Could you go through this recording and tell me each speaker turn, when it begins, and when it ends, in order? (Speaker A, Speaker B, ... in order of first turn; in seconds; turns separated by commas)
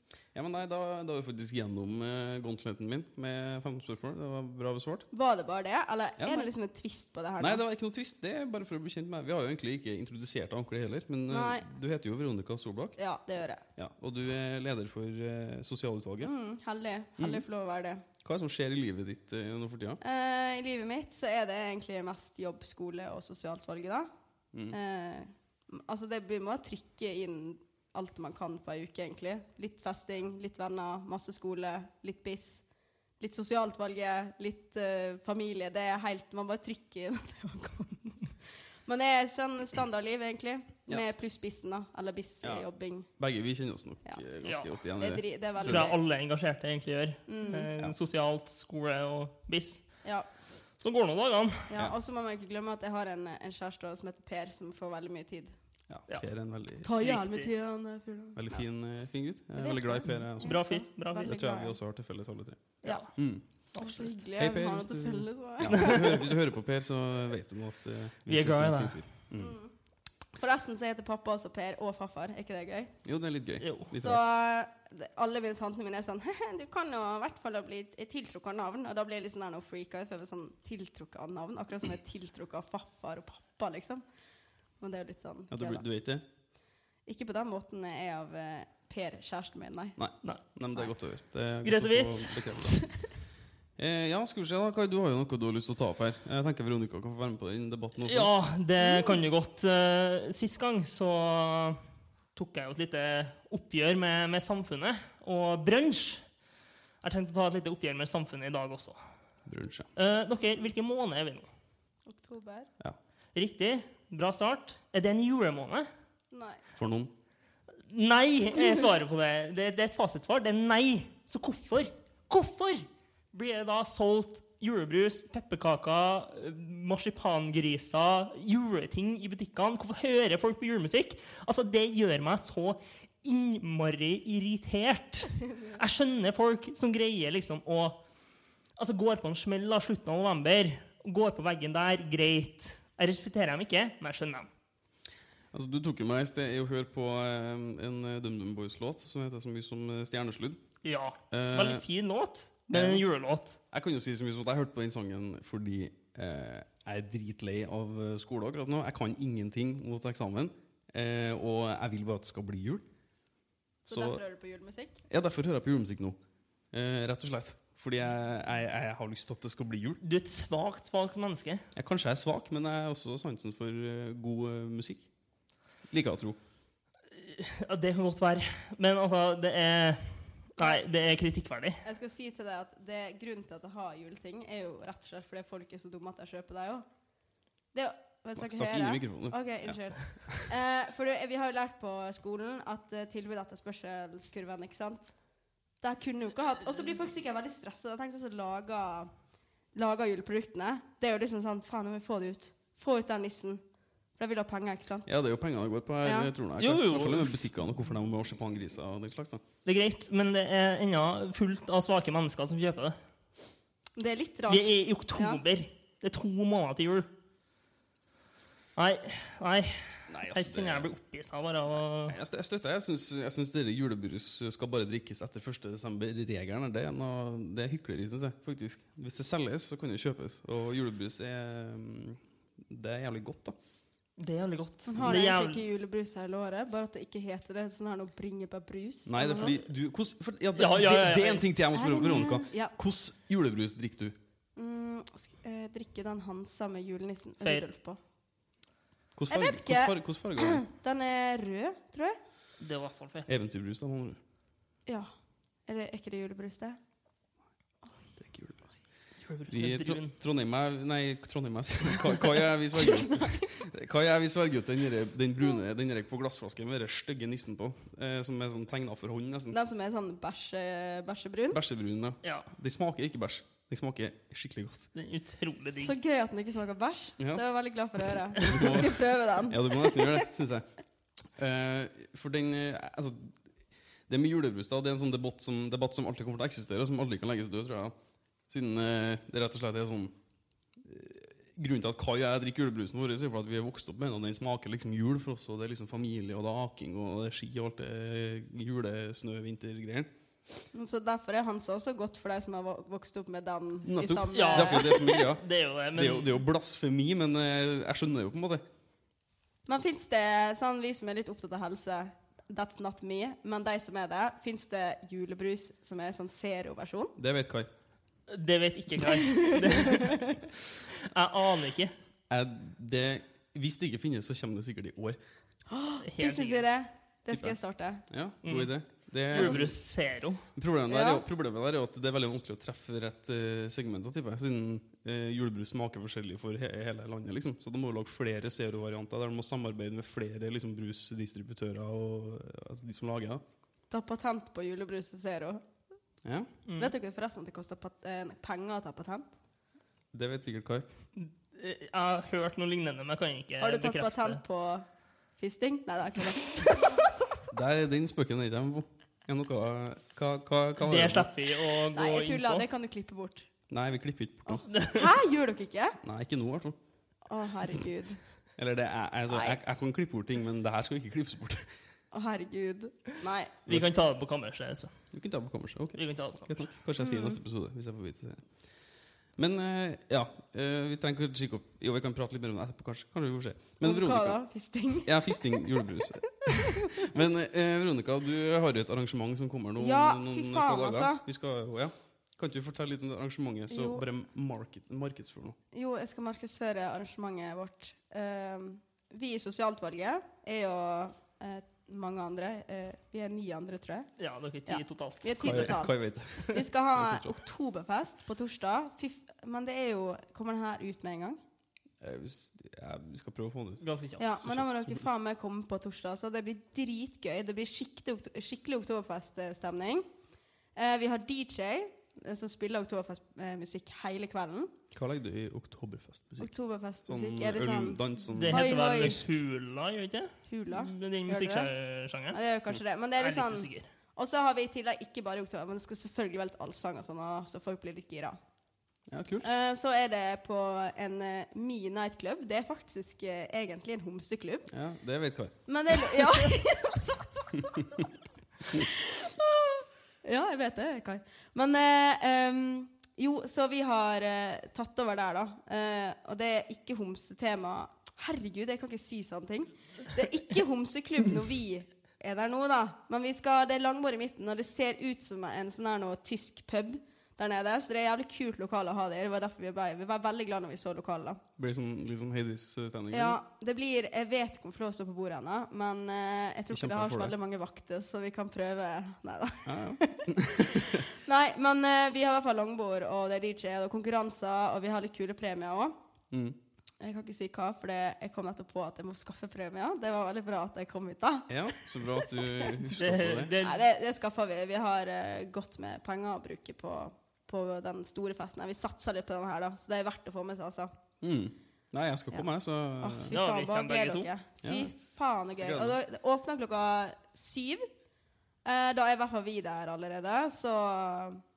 Speaker A: 0.3-5.1, Speaker B: 5.1-7.6, Speaker A: 6.2-6.5, Speaker A: 7.4-13.0, Speaker B: 11.3-11.7, Speaker B: 13.0-13.6, Speaker A: 13.8-16.3, Speaker B: 16.2-18.0, Speaker A: 17.2-17.4, Speaker A: 18.2-20.0, Speaker B: 20.0-24.1, Speaker B: 24.7-32.6, Speaker B: 33.2-38.3, Speaker B: 38.9-43.1, Speaker A: 43.2-45.9, Speaker C: 44.4-44.7, Speaker B: 45.0-46.0, Speaker C: 45.6-50.0, Speaker B: 47.3-47.7, Speaker C: 50.8-51.7, Speaker B: 51.7-55.5, Speaker A: 55.9-56.9, Speaker B: 56.8-58.6, Speaker C: 57.0-57.5, Speaker A: 58.4-60.6, Speaker B: 59.6-61.8, Speaker C: 60.4-61.4, Speaker A: 61.2-63.4, Speaker C: 62.8-63.1, Speaker B: 63.8-66.3, Speaker C: 63.8-64.1, Speaker A: 64.3-69.5, Speaker C: 65.7-66.1, Speaker C: 68.3-69.0, Speaker B: 69.4-69.7, Speaker B: 70.3-72.9, Speaker A: 73.0-74.2, Speaker C: 73.6-73.9, Speaker B: 73.9-84.0, Speaker B: 84.8-85.8, Speaker A: 85.5-86.2, Speaker B: 87.1-90.0, Speaker A: 90.0-92.9, Speaker C: 91.6-92.6, Speaker A: 93.8-98.3, Speaker C: 98.0-101.8, Speaker B: 98.8-99.2, Speaker C: 102.3-106.2, Speaker C: 107.0-109.0, Speaker A: 109.5-109.9, Speaker C: 110.0-111.5, Speaker B: 112.1-112.7, Speaker C: 113.3-115.9, Speaker B: 116.3-116.6, Speaker A: 116.8-117.1, Speaker C: 117.9-138.0, Speaker C: 138.8-144.5, Speaker A: 145.5-150.6, Speaker C: 150.8-153.6, Speaker A: 151.3-151.8, Speaker A: 152.7-153.1, Speaker A: 153.7-162.8, Speaker A: 163.9-164.2, Speaker B: 163.9-165.0, Speaker A: 165.1-166.2, Speaker A: 166.7-170.0, Speaker C: 170.0-171.6, Speaker A: 171.8-175.1, Speaker A: 175.9-176.4, Speaker C: 177.1-181.8, Speaker B: 181.8-186.8, Speaker B: 187.7-195.2, Speaker A: 188.3-190.5, Speaker B: 195.8-199.1, Speaker B: 199.7-203.6, Speaker B: 204.2-205.1, Speaker A: 205.1-209.4, Speaker B: 206.0-206.3, Speaker C: 206.6-207.4, Speaker C: 209.7-213.0, Speaker B: 214.0-215.4, Speaker C: 214.5-217.1, Speaker C: 218.8-222.2, Speaker A: 220.1-220.9, Speaker A: 222.0-233.6, Speaker C: 234.2-235.6, Speaker B: 234.9-239.6, Speaker A: 239.1-244.2, Speaker C: 240.6-241.5, Speaker B: 241.7-242.7, Speaker B: 244.6-248.0, Speaker A: 249.2-250.6, Speaker B: 249.3-252.2, Speaker C: 252.6-253.3, Speaker A: 253.3-254.2, Speaker B: 255.7-256.8, Speaker A: 258.2-258.7, Speaker C: 259.2-260.1, Speaker A: 259.5-269.6, Speaker B: 262.8-263.5, Speaker B: 269.5-271.6, Speaker A: 271.5-274.9, Speaker C: 274.9-275.9, Speaker B: 275.8-280.3, Speaker A: 277.2-277.4, Speaker A: 278.4-280.7, Speaker A: 281.4-283.3, Speaker A: 284.1-287.9, Speaker A: 288.5-290.1, Speaker A: 290.8-300.1, Speaker B: 300.7-305.2, Speaker A: 303.8-308.6, Speaker C: 304.3-306.4, Speaker B: 309.7-317.1, Speaker A: 317.2-317.7, Speaker C: 318.3-321.9, Speaker B: 319.1-320.4, Speaker A: 322.3-325.2, Speaker B: 325.7-328.0, Speaker C: 326.1-326.6, Speaker A: 327.3-327.6, Speaker A: 328.1-329.8, Speaker C: 328.4-328.7, Speaker C: 329.3-330.4, Speaker B: 329.3-329.6, Speaker A: 330.6-343.4, Speaker B: 330.9-331.2, Speaker B: 343.9-345.6, Speaker A: 346.2-346.5, Speaker C: 346.7-346.9, Speaker B: 346.8-349.3, Speaker A: 350.1-350.9, Speaker C: 351.2-354.4, Speaker B: 353.6-354.9, Speaker B: 355.4-357.1, Speaker A: 357.5-361.3, Speaker C: 360.8-362.7, Speaker B: 361.9-363.5, Speaker A: 363.7-364.7, Speaker B: 364.5-366.0, Speaker C: 364.7-365.1, Speaker A: 366.0-366.8, Speaker B: 367.3-368.2, Speaker A: 368.6-371.7, Speaker B: 369.3-369.6, Speaker B: 372.1-373.5, Speaker C: 373.7-374.9, Speaker A: 375.1-378.5, Speaker C: 376.0-376.7, Speaker B: 377.0-377.4, Speaker A: 379.4-384.4, Speaker B: 383.8-387.1, Speaker A: 385.0-395.6, Speaker B: 389.8-391.2, Speaker B: 393.7-394.0, Speaker B: 395.7-404.1, Speaker C: 404.2-405.8, Speaker B: 404.7-411.4, Speaker A: 405.4-407.4, Speaker A: 412.0-413.9, Speaker C: 413.8-414.2, Speaker B: 414.2-420.1, Speaker A: 414.4-415.1, Speaker B: 420.8-424.7, Speaker A: 424.9-426.5, Speaker B: 426.4-429.2, Speaker A: 427.1-429.3, Speaker C: 428.4-432.4, Speaker B: 430.5-431.7, Speaker B: 432.3-438.4, Speaker C: 433.2-433.9, Speaker A: 439.1-439.4, Speaker B: 439.4-444.7, Speaker A: 444.7-445.6, Speaker B: 445.7-448.1, Speaker A: 447.5-448.0, Speaker B: 448.7-471.4, Speaker A: 471.6-473.4, Speaker B: 473.1-486.0, Speaker A: 476.7-477.3, Speaker A: 479.6-481.1, Speaker A: 486.3-486.6, Speaker B: 487.0-492.7, Speaker A: 491.5-493.5, Speaker C: 492.9-493.8, Speaker B: 493.6-500.9, Speaker A: 501.2-503.3, Speaker B: 503.0-507.9, Speaker C: 503.3-504.3, Speaker A: 504.6-504.9, Speaker A: 505.6-506.0, Speaker B: 508.6-511.4